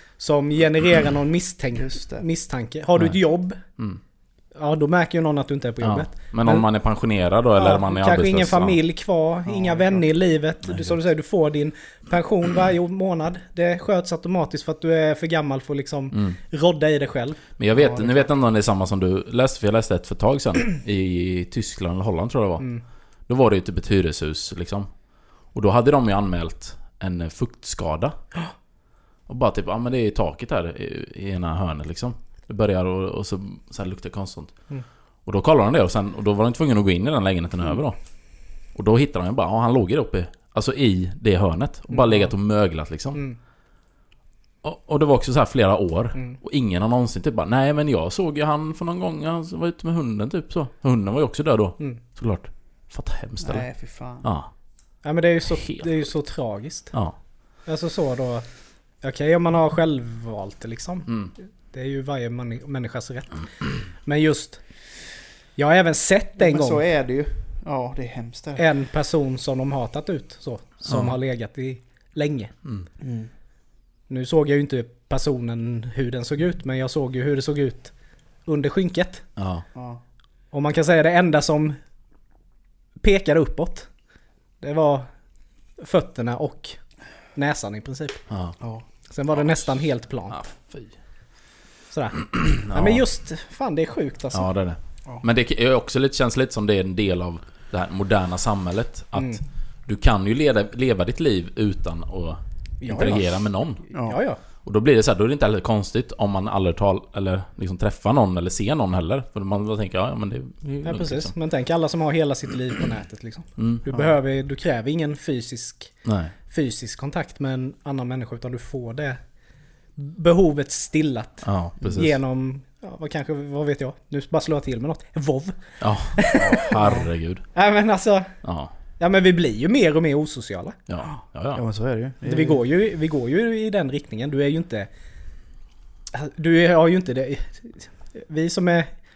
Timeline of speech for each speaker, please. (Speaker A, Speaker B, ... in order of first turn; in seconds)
Speaker A: 0.2-3.6, 4.5-6.7, 7.6-17.4, 41.9-42.3, 55.0-56.9, 57.7-58.5, 59.0-61.1, 61.7-64.6, 65.6-66.8, 68.6-72.5, 74.1-77.9, 78.5-79.2, 80.5-81.8, 83.0-83.9, 84.6-85.1, 85.8-86.8, 87.3-88.2, 89.1-90.4, 91.9-94.5, 99.2-99.4, 102.8-103.3, 104.0-104.4, 110.8-115.9, 116.5-119.2, 120.0-125.6, 126.2-126.7, 127.5-128.3, 129.0-130.8, 132.2-134.9, 136.1-138.9
Speaker B: 1.8-2.2, 9.5-10.0, 17.7-18.3, 53.4-54.2, 66.4-68.6, 73.0-73.3, 79.8-80.0, 103.9-104.2, 126.8-127.1, 131.5-132.6
Speaker C: 5.8-8.8, 16.1-16.4, 17.6-22.7, 23.3-24.9, 25.5-28.2, 29.3-34.6, 35.3-38.0, 38.8-43.2, 44.6-53.7, 54.2-54.5, 55.5-55.9, 61.1-61.3, 70.8-71.2, 79.4-79.7, 88.3-88.6, 90.3-90.9, 92.3-93.0, 94.3-103.8, 104.6-111.3, 113.6-113.9, 116.0-116.3, 121.4-122.2, 125.8-127.4, 128.4-128.7, 130.9-131.6